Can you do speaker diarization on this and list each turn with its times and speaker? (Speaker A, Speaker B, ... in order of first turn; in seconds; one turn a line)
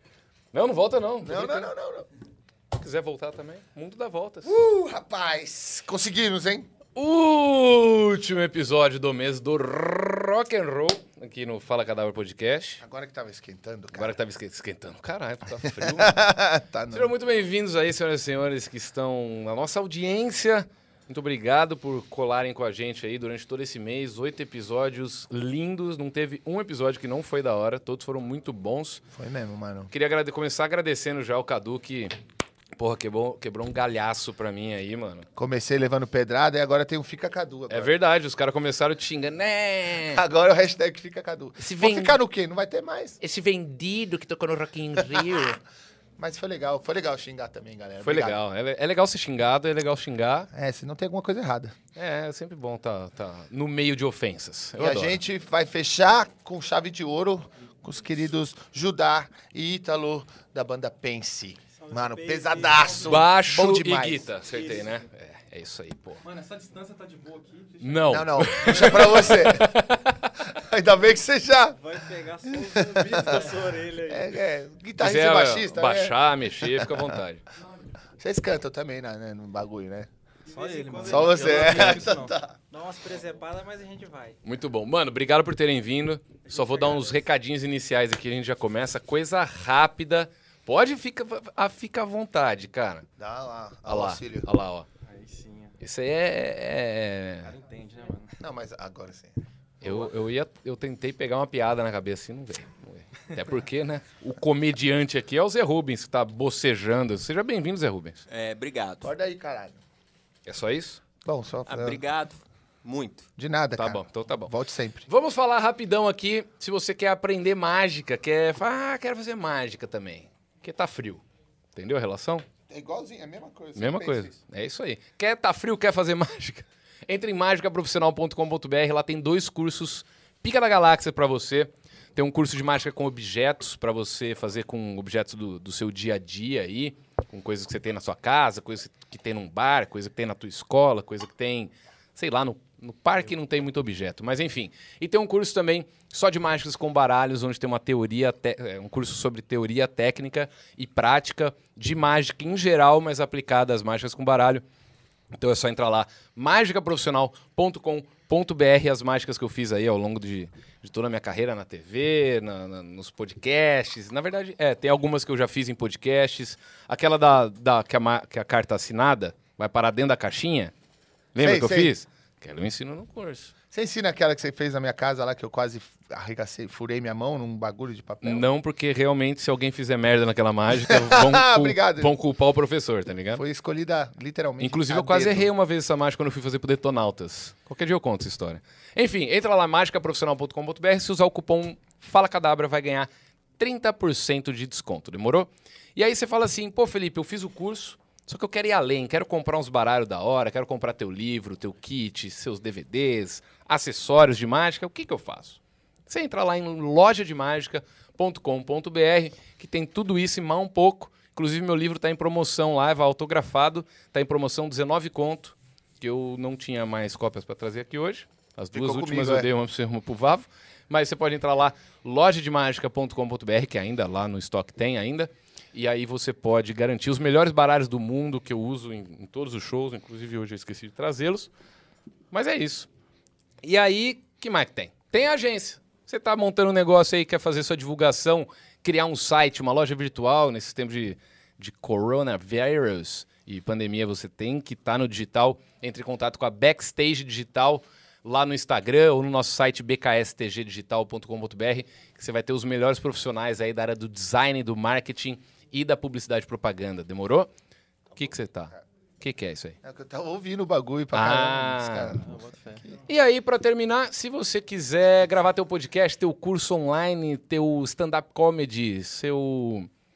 Speaker A: 0.5-1.7
Speaker B: 1.2-2.1
Speaker A: 2.8-4.5
Speaker B: 4.4-6.7
Speaker A: 7.0-12.8
Speaker B: 12.8-14.2
Speaker A: 13.9-16.2
Speaker B: 15.6-17.1
Speaker A: 16.9-29.0
Speaker B: 29.1-29.9
Speaker A: 29.9-32.1
Speaker A: 32.8-35.3
Speaker B: 35.4-37.9
Speaker A: 37.7-40.2
Speaker B: 40.1-43.2
Speaker A: 41.6-42.2
Speaker A: 43.2-45.6
Speaker B: 45.0-45.4
Speaker B: 46.2-48.4
Speaker A: 48.0-50.5
Speaker B: 50.5-51.8
Speaker A: 52.0-55.2
Speaker B: 54.8-64.3
Speaker C: 61.8-63.1
Speaker D: 62.8-63.2
Speaker A: 63.0-66.2
Speaker C: 64.5-65.0
Speaker D: 66.2-68.2
Speaker A: 67.8-70.3
Speaker B: 68.1-69.8
Speaker B: 70.5-71.8
Speaker C: 71.8-74.3
Speaker B: 72.5-73.5
Speaker B: 74.0-77.2
Speaker A: 75.0-77.4
Speaker B: 78.2-80.1
Speaker C: 80.5-82.0
Speaker D: 80.5-82.3
Speaker B: 81.0-82.5
Speaker C: 82.7-84.4
Speaker A: 84.4-93.1
Speaker C: 86.5-87.2
Speaker B: 93.2-94.5
Speaker A: 93.9-94.9
Speaker D: 95.0-95.8
Speaker A: 95.8-97.5
Speaker D: 97.4-98.3
Speaker B: 98.4-99.4
Speaker A: 99.8-108.2
Speaker E: 108.3-109.1
Speaker B: 109.0-109.8
Speaker A: 110.5-111.0
Speaker B: 111.2-112.0
Speaker E: 111.7-113.3
Speaker B: 113.4-115.1
Speaker A: 113.8-114.5
Speaker A: 115.1-121.2
Speaker A: 121.7-122.5
Speaker B: 122.7-124.4
Speaker A: 123.8-154.6
Speaker A: 155.3-170.7
Speaker A: 171.3-173.5
Speaker B: 171.4-171.9
Speaker B: 173.7-178.5
Speaker A: 178.2-183.4
Speaker B: 180.9-182.1
Speaker B: 183.3-185.5
Speaker A: 184.6-231.5
Speaker B: 218.7-219.5
Speaker A: 232.3-232.9
Speaker A: 233.6-257.5
Speaker A: 258.2-259.8
Speaker B: 259.8-263.0
Speaker A: 261.1-262.2
Speaker D: 262.2-262.8
Speaker A: 263.1-269.9